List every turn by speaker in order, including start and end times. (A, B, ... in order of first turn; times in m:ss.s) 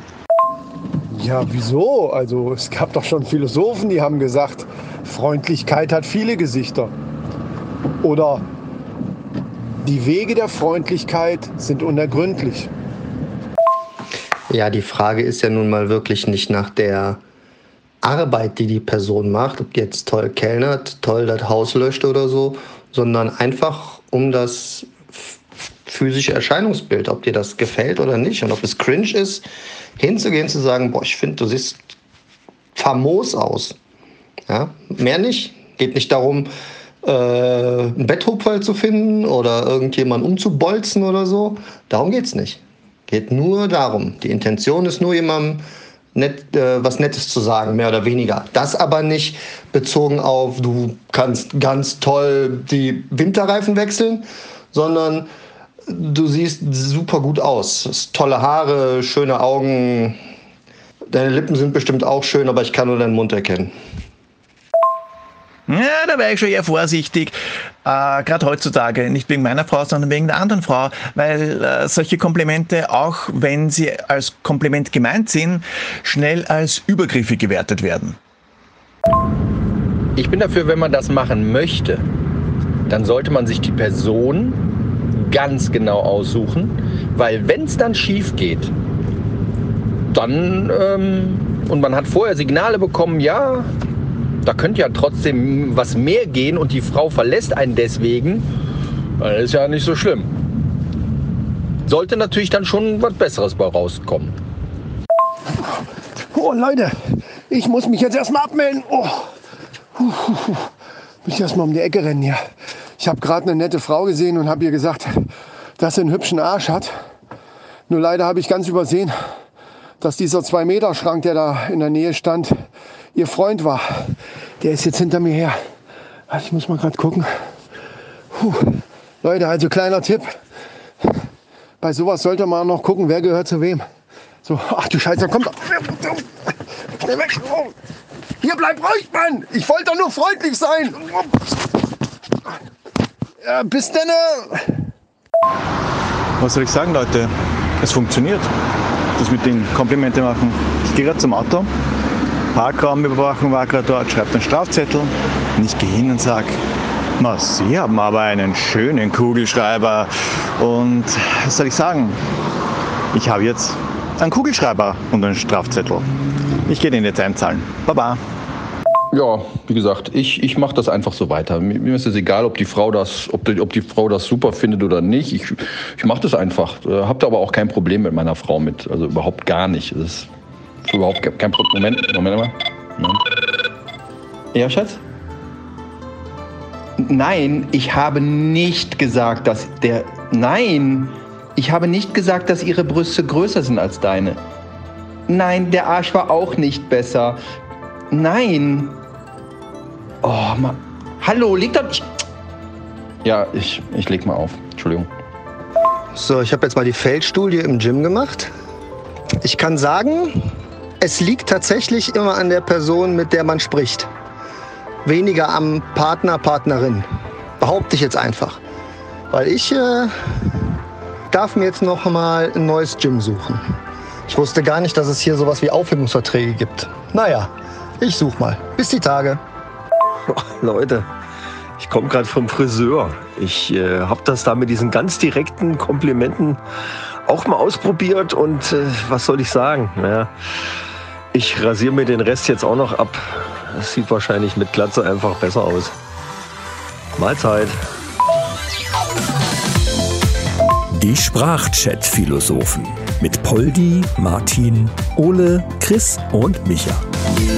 0:01.1-0:06.9 A
0:08.0-0:08.4 A
0:09.8-0:12.7 A
0:14.5-0:17.2 B
0:18.0-0:25.3 B
0:25.9-0:29.4 B
0:30.0-0:32.0 B
0:32.8-0:33.8 B
0:34.5-0:36.5 B
0:37.0-0:45.6 B
0:46.2-0:55.3 B
0:55.9-1:00.2 B
1:01.1-1:03.7 B
1:05.7-1:18.2 C
1:20.2-1:22.1 D
1:22.9-1:24.6 D
1:25.1-1:28.7 D
1:30.1-1:33.7 D
1:34.4-1:38.5 D
1:39.2-1:40.3 D
1:41.9-1:44.4 D
1:46.3-1:46.9 A
1:47.5-1:49.3 A
1:50.0-1:50.7 A
1:51.2-1:52.4 A
1:53.0-1:55.3 A
1:55.8-1:56.9 A
1:57.9-1:59.1 A
2:00.0-2:02.6 A
2:03.1-2:05.6 A
2:06.3-2:07.3 A
2:08.3-2:10.3 A
2:11.8-2:13.8 A
2:14.4-2:16.3 A
2:16.9-2:17.8 A
2:18.4-2:21.4 A
2:23.4-2:24.8 A
2:26.4-2:28.5 C
2:29.2-2:31.7 C
2:32.5-2:36.6 C
2:37.2-2:42.2 C
2:43.1-2:46.1 C
2:46.7-2:48.2 C
2:49.1-3:00.3 D
3:00.8-3:03.2 D
3:04.5-3:05.0 D
3:07.0-3:14.4 D
3:15.3-3:17.4 D
3:18.1-3:19.0 D
3:20.2-3:22.1 D
3:23.2-3:25.1 D
3:26.2-3:28.5 B
3:29.4-3:30.5 B
3:31.0-3:34.1 B
3:35.0-3:37.1 B
3:37.6-3:38.6 B
3:39.3-3:40.1 B
3:41.3-3:43.6 B
3:44.3-3:49.4 B
3:50.3-3:51.1 E
3:51.8-3:56.6 E
3:57.3-4:00.3 E
4:01.3-4:05.9 E
4:07.2-4:07.8 E
4:10.9-4:17.1 F